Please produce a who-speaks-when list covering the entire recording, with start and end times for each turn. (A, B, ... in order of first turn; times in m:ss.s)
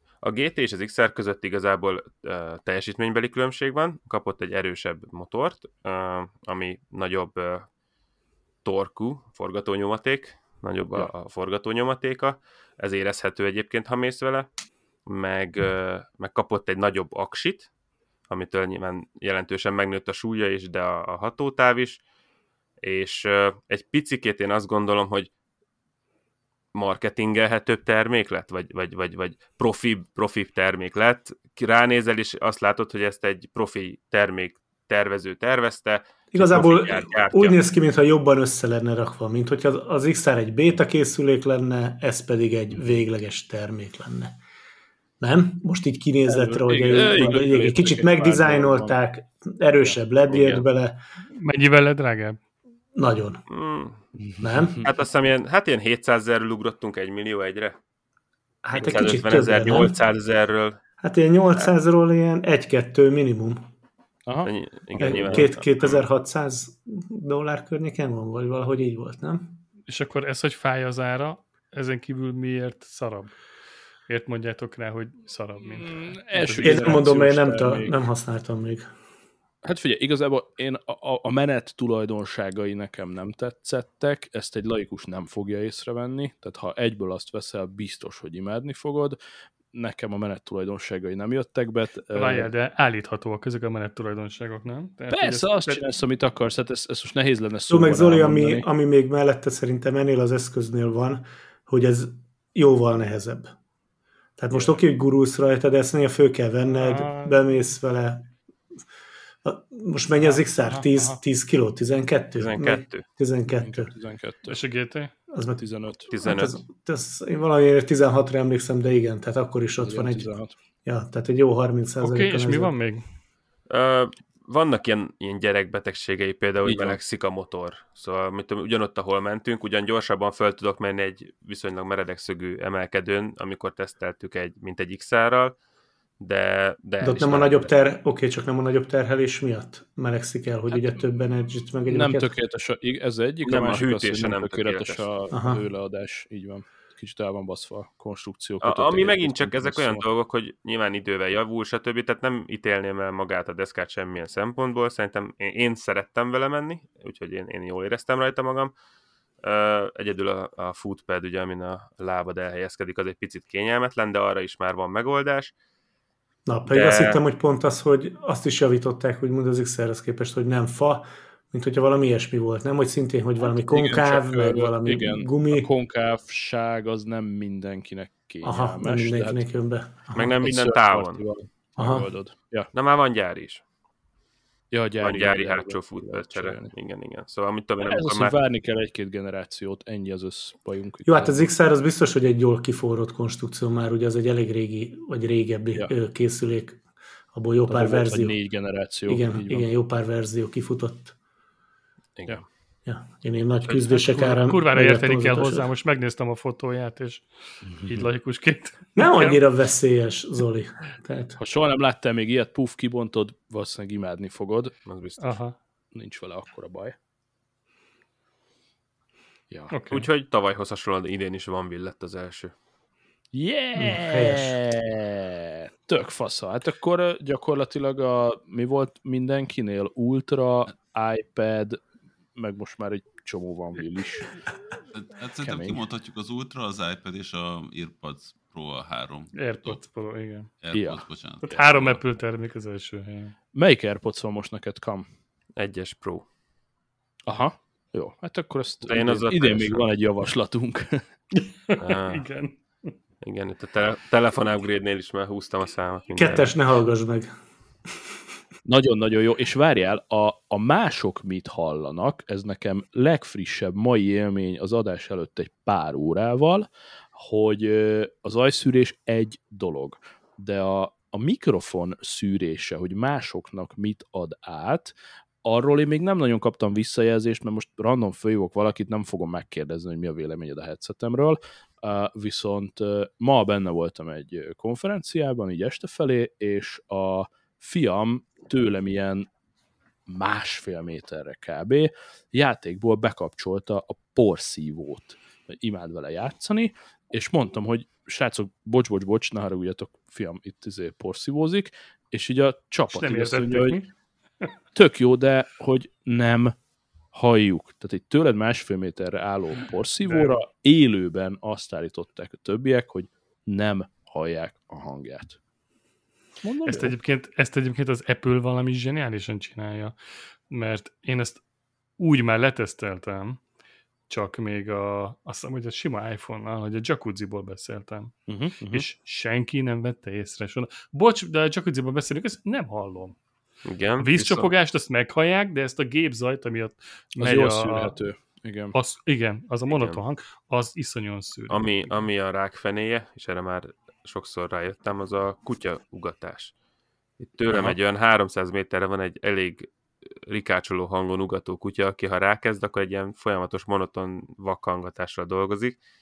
0:00.2-0:07.7 A
0:08.6-0:14.5 A
0:15.1-0:17.7 A
0:18.3-0:22.0 A
0:22.8-0:25.3 A
0:26.7-0:37.6 A
0:36.3-0:44.4 B
0:45.2-0:51.0 B
0:46.3-0:49.0 C
0:46.9-0:47.4 A
0:50.3-0:50.6 A
0:51.4-0:52.4 D
0:53.0-0:53.4 B
0:53.5-0:54.0 A
0:54.2-0:54.9 C
0:54.4-0:54.8 B
0:54.8-0:57.8 A
0:58.6-1:00.0 B
0:58.8-0:59.9 C
0:58.8-1:00.8 A
1:01.0-1:03.6 B
1:04.3-1:05.4 C
1:04.4-1:06.0 A
1:05.0-1:09.6 B
1:09.9-1:13.4 D
1:14.1-1:17.1 D
1:15.6-1:17.9 C
1:16.6-1:18.9 B
1:19.6-1:29.2 C
1:29.7-1:32.5 C
1:32.1-1:35.9 D
1:35.1-1:38.7 C
1:37.7-1:43.5 B
1:44.4-1:48.3 B
1:46.7-1:47.4 D
1:49.4-1:53.9 B
1:50.2-1:51.2 D
1:52.4-1:53.1 A
1:53.6-1:54.6 C
1:54.5-1:55.3 D
1:55.3-2:00.3 B
1:55.6-1:56.1 C
1:56.1-1:56.6 A
1:59.8-2:00.5 C
2:00.8-2:02.7 B
2:02.0-2:03.0 D
2:03.7-2:15.6 A
2:06.6-2:07.0 C
2:16.2-2:17.7 A
2:17.0-2:22.3 B
2:21.9-2:30.1 C
2:23.4-2:25.1 A
2:25.3-2:25.6 B
2:28.6-2:38.7 A
2:39.4-2:45.5 A
2:46.5-2:55.7 B
2:46.7-2:47.2 A
2:53.4-2:59.4 C
2:58.4-3:00.3 B
3:00.1-3:01.2 A
3:00.4-3:02.7 C
3:01.8-3:02.1 B
3:02.7-3:03.6 A
3:04.7-3:06.7 C
3:05.0-3:08.4 A
3:07.8-3:11.5 C
3:11.0-3:16.8 B
3:17.3-3:18.4 B
3:17.7-3:19.7 C
3:19.1-3:21.2 B
3:22.2-3:22.5 A
3:22.9-3:25.7 B
3:23.6-3:24.1 A
3:24.1-3:29.4 D
3:27.7-3:28.1 C
3:29.0-3:31.4 B
3:31.4-3:34.8 C
3:34.9-3:35.4 A
3:35.2-3:35.6 D
3:35.9-3:37.0 C
3:39.5-3:39.8 C
3:39.7-3:40.1 D
3:39.9-3:42.5 A
3:43.3-3:51.8 C
3:43.8-3:44.6 B
3:52.4-3:54.4 C
3:54.9-4:02.0 E
3:55.4-3:55.8 C
3:59.4-4:00.6 D
4:00.7-4:01.6 C
4:01.4-4:03.4 D
4:03.5-4:05.1 C
4:05.6-4:06.3 A
4:07.3-4:11.0 C
4:08.8-4:09.9 A
4:11.4-4:12.9 D
4:11.8-4:12.3 A
4:13.2-4:16.5 A
4:16.2-4:17.3 B
4:18.7-4:49.3 C
4:50.1-5:03.8 C
5:02.9-5:04.5 D
5:04.7-5:06.6 C
5:07.1-5:15.4 C
5:10.0-5:10.4 D
5:16.4-5:17.0 C
5:16.6-5:21.4 D
5:22.0-5:23.4 D
5:24.1-5:33.2 D
5:28.3-5:28.9 C
5:33.6-5:34.5 A
5:34.0-5:38.0 D
5:37.2-5:38.8 C
5:38.7-5:41.9 D
5:39.7-5:40.0 A
5:41.5-5:46.5 A
5:47.2-5:49.7 A
5:47.5-5:47.8 C
5:50.3-5:55.8 A